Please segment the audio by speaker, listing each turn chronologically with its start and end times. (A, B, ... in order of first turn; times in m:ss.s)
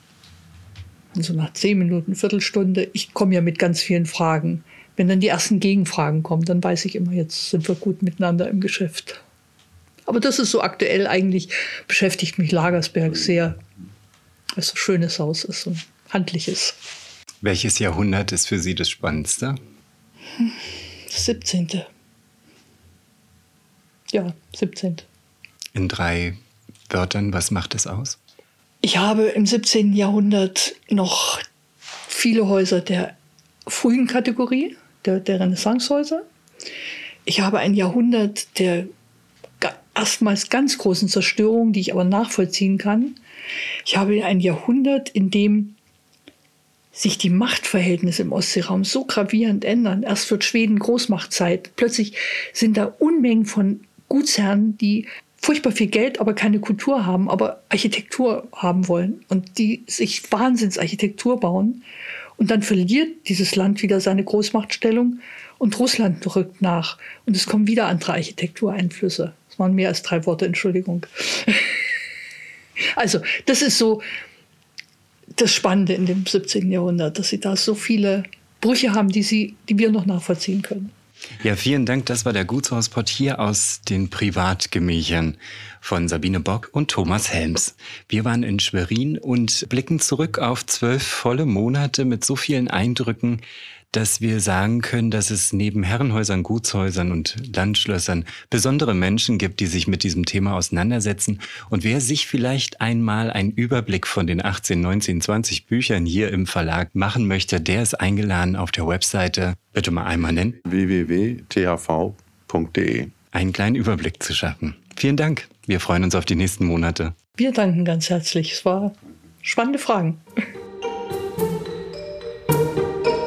0:01.1-0:09.2 A
0:10.0-0:13.6 A
0:14.6-0:16.8 A
0:17.4-0:19.6 B
0:20.4-0:21.9 A
0:24.1-0:25.0 A
0:25.7-0:26.4 B
0:26.9-0:28.2 B
0:28.8-0:31.4 A
0:32.1-0:33.1 A
0:33.6-0:36.2 A
0:37.2-0:38.9 A
0:39.6-0:43.2 A
0:43.8-0:45.8 A
0:46.9-1:01.8 A
1:02.4-1:11.8 A
1:12.9-1:14.0 A
1:15.3-1:20.9 A
1:21.4-1:50.6 B
1:50.6-1:53.1 C
1:53.3-1:57.1 B
1:57.4-2:00.2 A